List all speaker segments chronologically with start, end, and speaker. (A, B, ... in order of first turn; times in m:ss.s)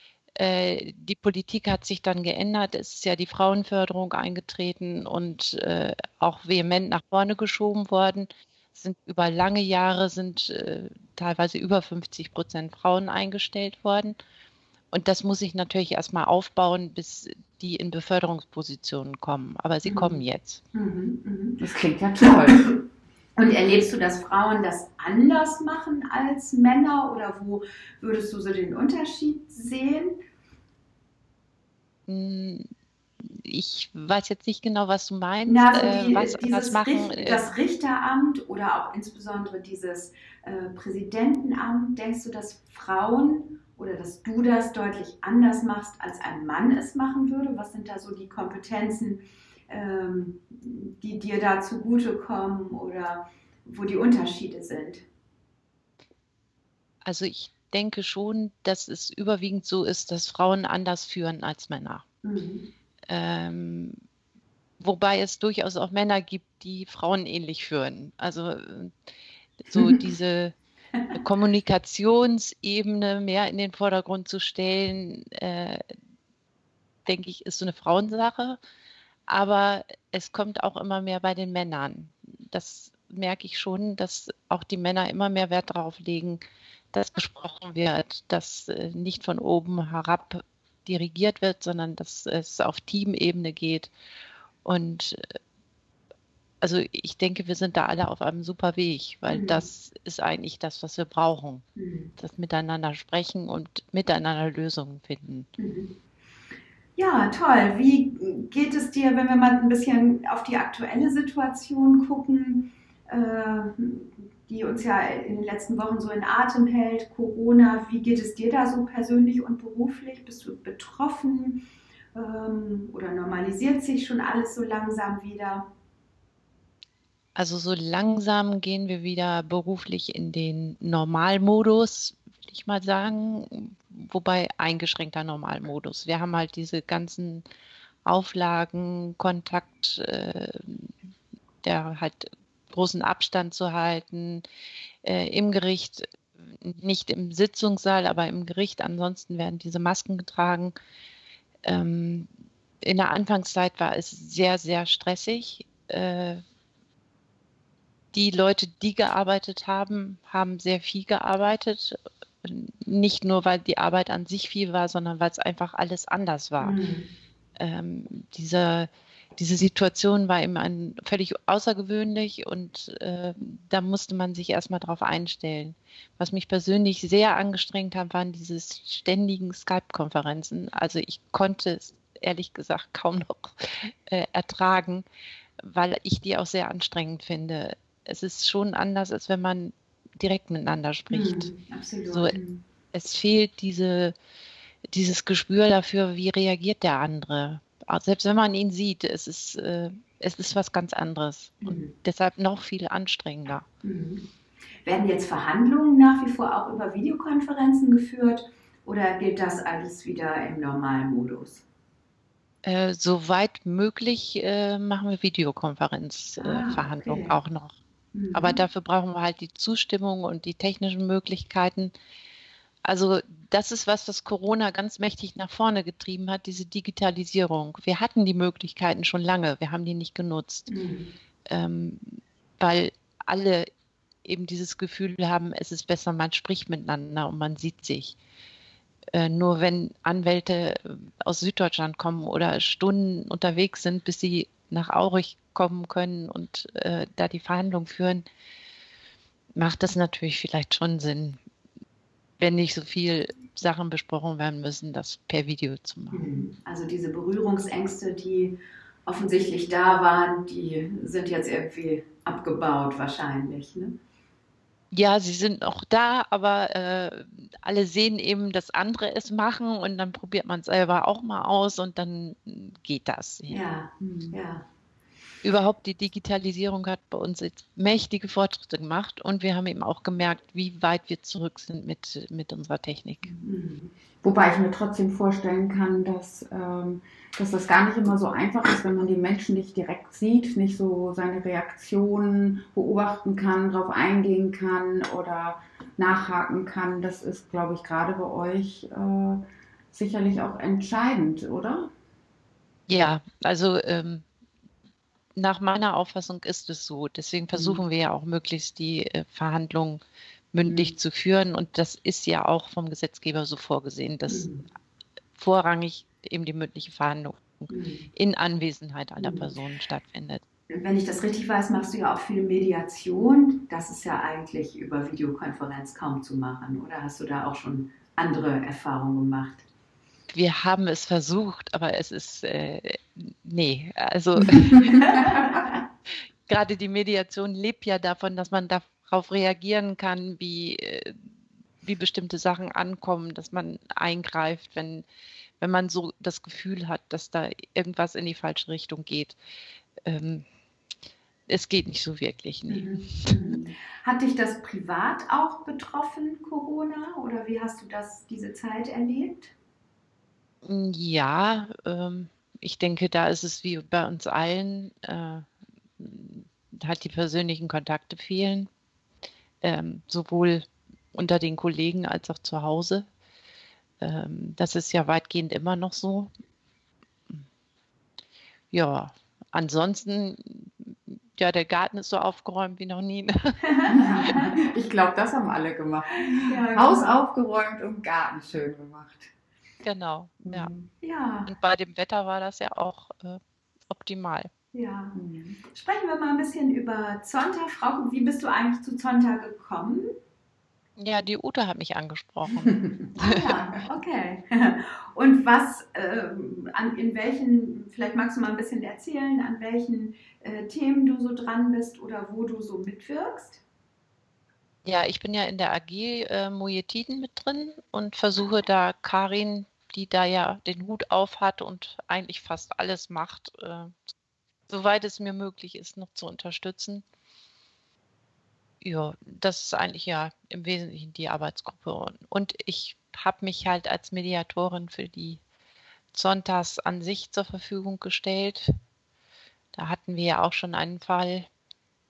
0:00.4-0:14.2 A
0:14.9-0:20.6 A
0:19.8-0:21.6 B
0:21.6-0:22.7 C
0:22.3-0:22.8 B
0:23.4-0:30.2 B
0:32.1-0:32.7 A
0:33.2-0:37.5 A
0:35.4-0:55.1 B
0:57.0-1:02.0 A
1:02.2-1:02.7 B
1:03.1-1:04.0 A
1:04.8-1:08.9 A
1:09.6-1:10.5 A
1:11.2-1:15.8 A
1:17.1-1:18.6 A
1:19.3-1:26.4 A
1:26.9-1:33.9 A
1:34.6-1:35.2 A
1:36.6-1:41.6 A
1:39.3-1:39.7 B
1:41.8-1:42.1 B
1:42.2-1:45.5 A
1:45.6-1:46.0 B
1:47.0-2:01.6 B
2:02.2-2:05.7 B
2:07.4-2:17.5 A
2:18.1-2:20.9 A
2:21.6-2:24.4 A
2:25.0-2:30.7 A
2:31.6-2:32.3 A
2:32.8-2:36.4 A
2:38.1-2:46.8 A
2:46.6-2:47.1 B
2:47.6-3:05.0 A
3:05.6-3:11.5 A
3:11.1-3:12.6 B
3:12.1-3:12.4 A
3:12.9-3:14.1 A
3:14.9-3:23.6 A
3:21.6-3:21.9 B
3:23.8-3:24.3 B
3:24.8-3:31.6 B
3:32.6-3:37.8 A
3:36.4-3:37.4 B
3:38.1-3:38.6 B
3:38.3-3:42.0 A
3:42.9-3:50.7 A
3:50.7-3:51.1 B
3:51.5-3:53.7 A
3:54.2-3:58.2 A
3:59.1-4:08.2 A
4:09.6-4:11.4 A
4:12.4-4:16.4 A
4:16.1-4:24.0 B
4:24.9-4:33.6 A
4:33.5-4:34.6 B
4:34.0-4:34.4 C
4:35.4-4:43.3 A
4:43.4-4:43.9 B
4:44.2-5:01.9 C
5:02.9-5:04.2 A
5:05.4-5:10.0 A
5:07.5-5:07.8 B
5:10.5-5:14.5 A
5:14.3-5:14.6 B
5:15.4-5:20.4 A
5:17.7-5:18.1 B
5:19.2-5:19.5 B
5:20.7-5:29.7 B
5:30.3-5:35.2 A
5:34.8-5:35.8 B
5:36.5-5:41.2 A
5:41.8-5:45.1 A
5:45.6-5:49.4 A
5:50.0-5:50.4 A
5:51.5-5:53.7 A
5:52.7-5:59.6 B
6:00.6-6:05.5 A
6:06.0-6:08.7 A
6:09.6-6:13.1 A
6:14.0-6:16.3 A
6:18.7-6:23.6 A
6:23.7-6:24.5 B
6:23.9-6:29.3 C
6:26.4-6:27.2 B
6:29.8-6:30.7 A
6:30.4-6:30.9 C
6:31.0-6:31.5 B
6:31.5-6:34.5 A
6:34.7-6:40.1 B
6:35.2-6:35.6 C
6:41.0-6:43.5 A
6:43.2-6:53.6 B
6:54.8-7:04.0 A
7:04.7-7:07.0 A
7:08.8-7:15.4 A
7:16.1-7:18.7 A
7:19.7-7:21.5 A